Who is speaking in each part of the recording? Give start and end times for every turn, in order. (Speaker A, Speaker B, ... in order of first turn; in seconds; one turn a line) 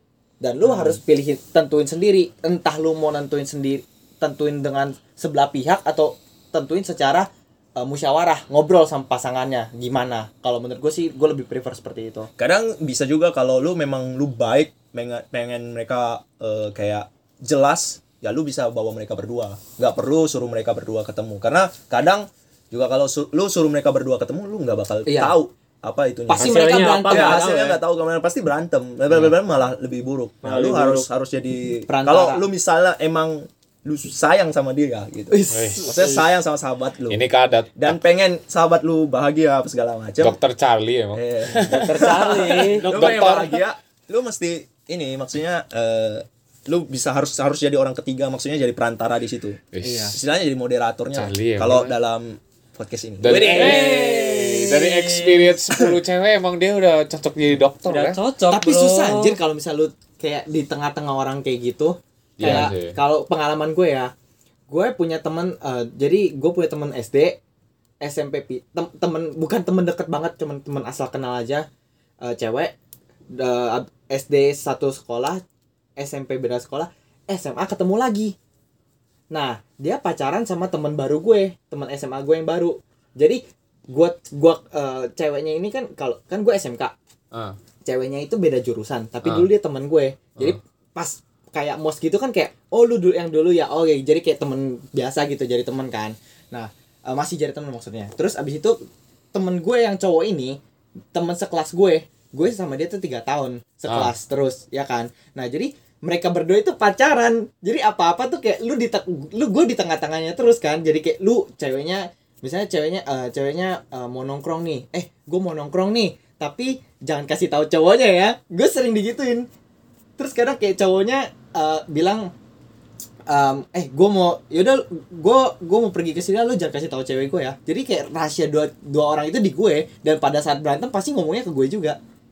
Speaker A: 0.4-12.3
Speaker B: 12.4-37.2
Speaker A: 25.1-25.4
Speaker A: 26.3-27.8
Speaker C: 26.3-27.8
Speaker C: 30.4-31.1
Speaker A: 31.9-32.4
Speaker A: 35.3-36.2
Speaker D: 35.5-36.0
Speaker D: 37.1-38.0
Speaker B: 37.8-40.4
Speaker D: 40.2-41.9
Speaker B: 41.1-49.6
Speaker C: 41.7-42.9
Speaker A: 42.7-43.6
Speaker D: 43.0-43.4
Speaker D: 49.7-50.2
Speaker A: 49.8-50.1
Speaker B: 50.1-53.9
Speaker D: 51.1-51.9
Speaker D: 53.2-58.2
Speaker C: 53.4-55.3
Speaker C: 57.9-59.4
Speaker A: 58.5-64.1
Speaker D: 62.4-63.0
Speaker A: 64.7-67.4
Speaker A: 68.0-71.7
Speaker A: 72.2-72.7
Speaker A: 73.3-75.4
Speaker A: 76.0-78.3
Speaker A: 79.3-86.9
Speaker A: 87.8-98.8
Speaker D: 89.2-89.5
Speaker A: 99.3-100.6
Speaker A: 101.1-119.5
Speaker A: 120.2-122.3
Speaker A: 123.3-132.0